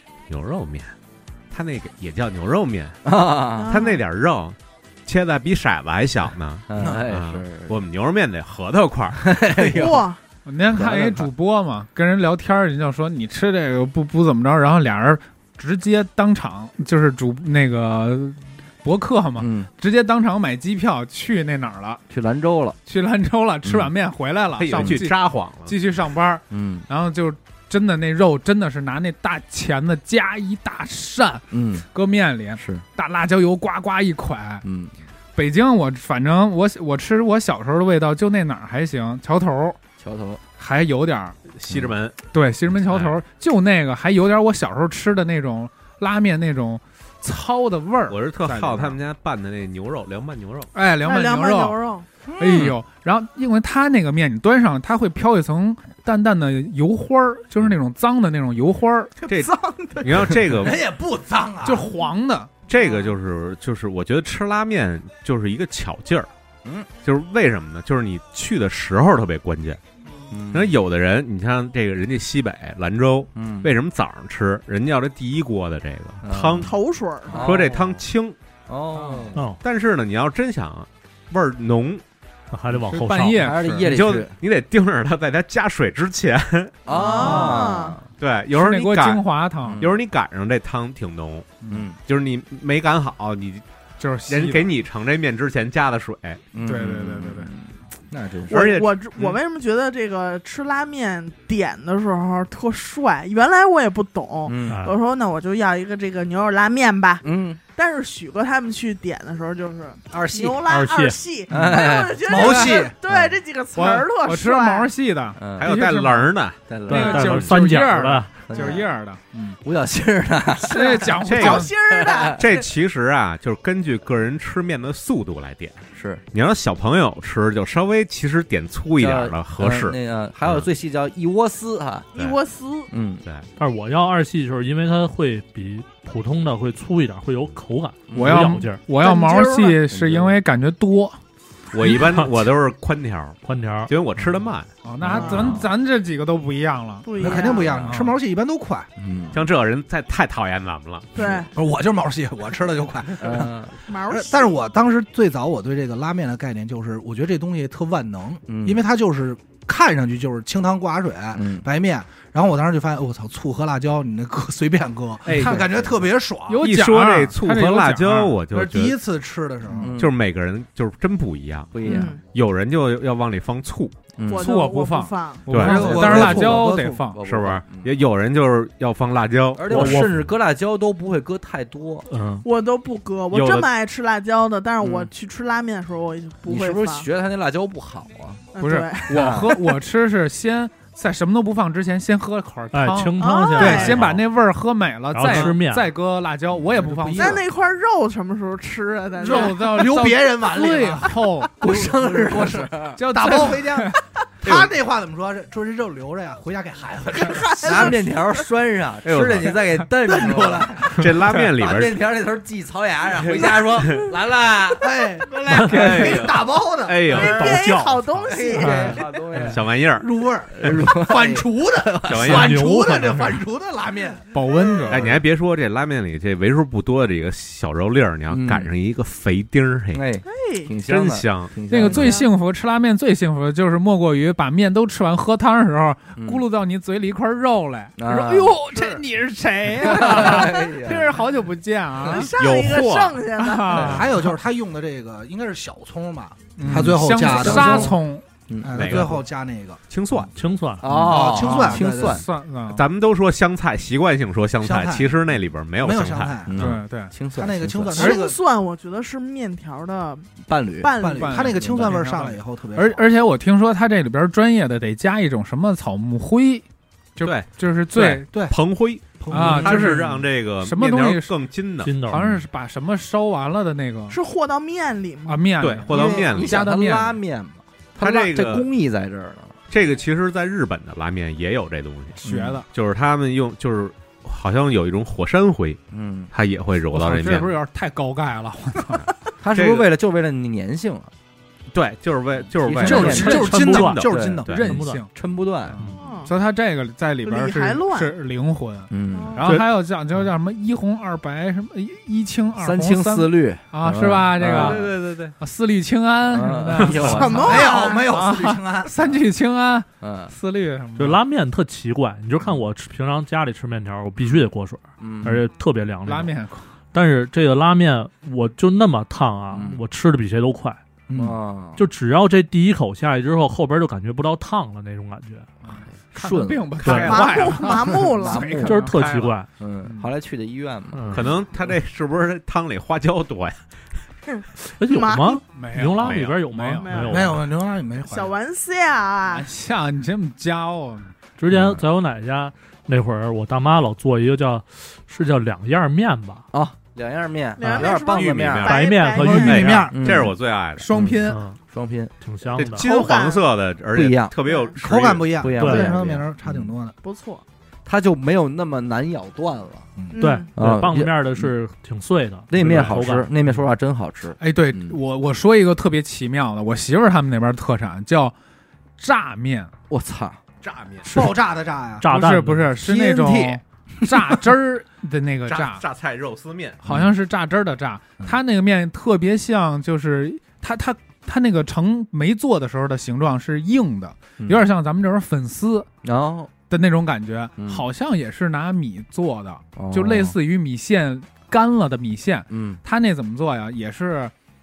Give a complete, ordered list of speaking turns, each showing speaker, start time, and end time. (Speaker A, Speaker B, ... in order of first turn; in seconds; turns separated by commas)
Speaker A: 0.3-0.9, Speaker A: 1.5-3.0, Speaker B: 3.0-3.8, Speaker C: 3.6-4.0, Speaker A: 3.7-9.3, Speaker B: 6.7-7.8, Speaker B: 9.2-10.1, Speaker C: 9.7-10.2, Speaker D: 10.5-22.0, Speaker B: 10.7-11.3, Speaker B: 19.4-19.7, Speaker B: 22.1-22.8, Speaker D: 22.9-34.6, Speaker B: 23.6-23.9, Speaker A: 24.6-25.8, Speaker B: 24.7-25.0, Speaker B: 26.5-26.9, Speaker B: 31.5-31.9, Speaker B: 32.6-32.8, Speaker B: 34.6-34.9, Speaker D: 35.4-39.8, Speaker B: 40.0-40.4, Speaker D: 40.6-41.4, Speaker A: 41.5-42.2, Speaker D: 42.3-49.0, Speaker A: 42.9-43.2, Speaker A: 48.1-50.7, Speaker D: 50.7-51.8, Speaker C: 51.0-52.1, Speaker D: 52.4-59.1, Speaker A: 59.3-60.8, Speaker C: 59.3-60.3, Speaker E: 60.2-61.9, Speaker D: 61.6-62.5, Speaker A: 62.7-66.3, Speaker C: 62.8-63.1, Speaker A: 67.0-69.8, Speaker B: 70.3-70.8, Speaker A: 70.5-76.7, Speaker B: 73.3-73.7, Speaker B: 76.2-76.7, Speaker C: 76.6-77.5, Speaker B: 77.3-77.9, Speaker A: 77.3-78.4, Speaker B: 78.7-79.4, Speaker F: 79.3-79.6, Speaker A: 79.6-82.0, Speaker F: 82.5-83.5, Speaker D: 82.8-83.8, Speaker B: 83.4-84.3, Speaker A: 83.8-86.8, Speaker B: 86.9-88.0, Speaker C: 86.9-88.0, Speaker D: 87.2-87.7, Speaker A: 88.2-89.2, Speaker D: 88.5-89.9, Speaker B: 89.7-89.9, Speaker A: 89.8-91.5, Speaker B: 91.7-92.0, Speaker A: 92.0-93.7, Speaker D: 94.0-94.7, Speaker A: 94.3-96.4, Speaker B: 96.5-98.7, Speaker D: 96.6-97.5, Speaker C: 98.5-114.9, Speaker A: 98.5-99.4, Speaker B: 104.5-104.8, Speaker F: 104.7-105.0, Speaker B: 107.2-107.6, Speaker B: 110.1-110.6, Speaker F: 110.7-111.2, Speaker B: 111.5-113.4, Speaker E: 112.3-112.9, Speaker D: 112.4-112.8, Speaker D: 113.8-116.3, Speaker B: 115.4-115.7, Speaker A: 115.6-116.6, Speaker B: 116.7-117.5, Speaker D: 116.9-119.6, Speaker F: 116.9-118.3, Speaker B: 118.5-118.9, Speaker C: 118.6-118.8, Speaker B: 119.6-121.2, Speaker D: 120.7-121.7, Speaker C: 120.7-122.7, Speaker A: 121.2-121.7, Speaker B: 121.9-122.4, Speaker A: 122.4-130.7, Speaker B: 125.9-126.2, Speaker B: 129.0-132.1, Speaker C: 132.2-132.9, Speaker B: 132.9-133.2, Speaker F: 133.6-138.8, Speaker B: 138.1-138.6, Speaker D: 138.2-141.2, Speaker C: 139.0-139.8, Speaker B: 139.9-140.4, Speaker A: 141.7-144.7, Speaker F: 141.8-142.2, Speaker F: 143.4-144.3, Speaker D: 144.8-147.3, Speaker B: 145.0-145.6, Speaker C: 145.2-145.6, Speaker A: 145.3-145.6, Speaker C: 147.0-147.8, Speaker E: 147.2-148.9, Speaker D: 147.8-148.2, Speaker B: 149.0-149.4, Speaker A: 149.3-151.2, Speaker C: 151.2-151.5, Speaker E: 151.5-166.6, Speaker B: 153.2-153.8, Speaker C: 153.9-154.6, Speaker B: 158.5-158.8, Speaker B: 161.3-161.7, Speaker D: 165.3-165.7, Speaker B: 165.3-165.9, Speaker D: 166.5-168.4, Speaker A: 166.6-169.0, Speaker E: 168.5-170.0, Speaker B: 169.8-170.1, Speaker A: 170.0-173.9, Speaker B: 171.7-172.2, Speaker C: 171.8-172.2, Speaker B: 174.2-174.5, Speaker C: 174.3-175.5, Speaker D: 174.4-177.2, Speaker A: 175.5-176.5, Speaker E: 175.5-177.1, Speaker B: 176.0-177.9, Speaker A: 177.2-180.1, Speaker B: 179.6-182.1, Speaker F: 179.7-180.2, Speaker F: 182.1-182.5, Speaker C: 182.4-187.1, Speaker A: 183.3-183.7, Speaker B: 184.8-185.1, Speaker B: 186.5-188.4, Speaker C: 188.5-189.4, Speaker D: 188.6-197.4, Speaker B: 189.1-189.6, Speaker F: 192.7-194.2, Speaker C: 193.2-194.0, Speaker F: 195.1-195.9, Speaker E: 196.8-197.4, Speaker C: 197.2-199.8, Speaker E: 199.2-208.0, Speaker D: 199.2-201.9, Speaker B: 201.6-203.0, Speaker D: 202.9-204.0, Speaker A: 204.4-204.7, Speaker C: 207.2-208.0, Speaker B: 207.6-214.9, Speaker A: 209.0-209.8, Speaker E: 210.0-211.1, Speaker A: 210.9-212.0, Speaker A: 213.2-214.1, Speaker E: 214.8-217.2, Speaker F: 215.5-216.1, Speaker A: 215.6-217.6, Speaker C: 217.1-219.0, Speaker F: 217.1-219.6, Speaker B: 218.3-219.7, Speaker A: 219.5-220.1, Speaker E: 220.0-225.1, Speaker B: 220.5-222.4, Speaker A: 222.1-222.6, Speaker F: 222.3-223.4, Speaker D: 224.3-225.1, Speaker A: 224.9-230.0, Speaker B: 228.3-228.7, Speaker B: 229.9-232.2, Speaker C: 230.2-230.7, Speaker A: 230.9-231.6, Speaker D: 231.7-242.3, Speaker C: 231.9-232.3, Speaker B: 236.2-236.4, Speaker B: 238.0-238.7, Speaker B: 239.8-241.2, Speaker C: 242.0-243.8, Speaker A: 242.1-243.2, Speaker D: 243.4-244.3, Speaker B: 243.7-244.0, Speaker E: 243.8-248.0, Speaker D: 246.6-248.2, Speaker B: 246.7-248.0, Speaker B: 248.5-249.0, Speaker E: 248.6-249.8, Speaker A: 248.8-249.2, Speaker A: 249.9-250.3, Speaker F: 250.3-250.8, Speaker B: 250.8-252.3, Speaker E: 250.9-252.2, Speaker D: 251.1-252.8, Speaker A: 252.7-256.8, Speaker E: 254.6-255.1, Speaker E: 255.8-256.7, Speaker B: 256.5-258.2, Speaker D: 256.6-257.1, Speaker E: 257.4-258.4, Speaker C: 258.0-260.3, Speaker B: 260.5-260.9, Speaker C: 260.8-261.6, Speaker E: 261.0-263.1, Speaker D: 261.1-266.6, Speaker D: 267.2-268.3, Speaker A: 267.2-272.0, Speaker E: 268.3-268.6, Speaker E: 269.2-270.2, Speaker D: 269.3-271.3, Speaker F: 271.8-272.3, Speaker D: 272.1-274.2, Speaker C: 274.1-275.5, Speaker D: 275.3-277.2, Speaker A: 275.6-276.6, Speaker B: 275.9-279.6, Speaker A: 278.0-278.7, Speaker A: 279.7-282.2, Speaker D: 282.2-282.7, Speaker B: 282.2-282.6, Speaker A: 282.7-285.8, Speaker B: 285.9-286.3, Speaker A: 286.3-287.5, Speaker D: 286.9-289.1, Speaker B: 289.4-291.1, Speaker A: 289.5-289.9, Speaker A: 291.7-294.6, Speaker B: 292.6-293.5, Speaker E: 292.8-294.7, Speaker D: 292.8-295.1, Speaker F: 292.9-295.1, Speaker B: 294.1-294.5, Speaker B: 295.1-295.8, Speaker D: 295.7-311.2, Speaker C: 296.0-296.4, Speaker C: 297.2-298.1, Speaker B: 298.9-299.4, Speaker C: 299.1-299.5, Speaker B: 302.6-304.8, Speaker A: 304.4-305.4, Speaker B: 306.3-307.7, Speaker C: 307.1-308.1, Speaker E: 307.2-309.1, Speaker B: 310.0-310.3, Speaker F: 311.0-316.3, Speaker B: 315.0-315.4, Speaker D: 316.1-316.7, Speaker F: 316.9-320.8, Speaker B: 319.5-319.8, Speaker B: 321.1-321.8, Speaker F: 321.8-325.5, Speaker D: 325.6-329.3, Speaker B: 326.1-326.9, Speaker F: 326.8-327.1, Speaker A: 326.9-327.5, Speaker C: 327.0-328.6, Speaker B: 328.2-328.8, Speaker F: 328.6-329.5, Speaker A: 329.0-329.3, Speaker B: 329.6-331.2, Speaker D: 329.9-330.1, Speaker F: 330.9-331.3, Speaker A: 331.1-333.6, Speaker C: 334.3-335.4, Speaker F: 334.8-337.4, Speaker D: 335.5-337.1, Speaker C: 336.8-337.3, Speaker E: 337.1-338.3, Speaker C: 338.1-339.5, Speaker D: 339.3-341.1, Speaker F: 341.4-346.5, Speaker B: 341.5-341.8, Speaker B: 346.5-348.7, Speaker C: 347.6-349.9, Speaker A: 347.7-350.9, Speaker F: 348.6-349.9, Speaker E: 349.2-349.9, Speaker B: 349.9-350.3, Speaker D: 350.8-351.4, Speaker B: 350.9-352.1, Speaker F: 351.2-351.6, Speaker F: 352.2-352.9, Speaker A: 352.6-355.5, Speaker C: 352.8-353.5, Speaker B: 353.9-354.3, Speaker C: 354.4-354.8, Speaker E: 354.8-356.9, Speaker B: 355.4-356.7, Speaker F: 355.6-355.9, Speaker C: 357.0-357.4, Speaker B: 357.9-359.9, Speaker C: 360.1-360.5, Speaker F: 360.2-363.3, Speaker B: 360.6-361.5, Speaker B: 362.5-365.0, Speaker D: 364.4-368.3, Speaker D: 369.0-369.7, Speaker B: 369.9-370.4, Speaker A: 370.6-371.1, Speaker E: 371.1-372.1, Speaker F: 372.0-372.7, Speaker D: 372.1-375.8, Speaker B: 372.8-373.6, Speaker A: 375.5-376.8, Speaker D: 376.8-385.9, Speaker B: 376.9-377.1, Speaker B: 384.4-384.6, Speaker B: 386.0-386.5, Speaker D: 386.6-394.3, Speaker B: 387.6-387.9, Speaker B: 389.8-390.4, Speaker B: 392.5-392.8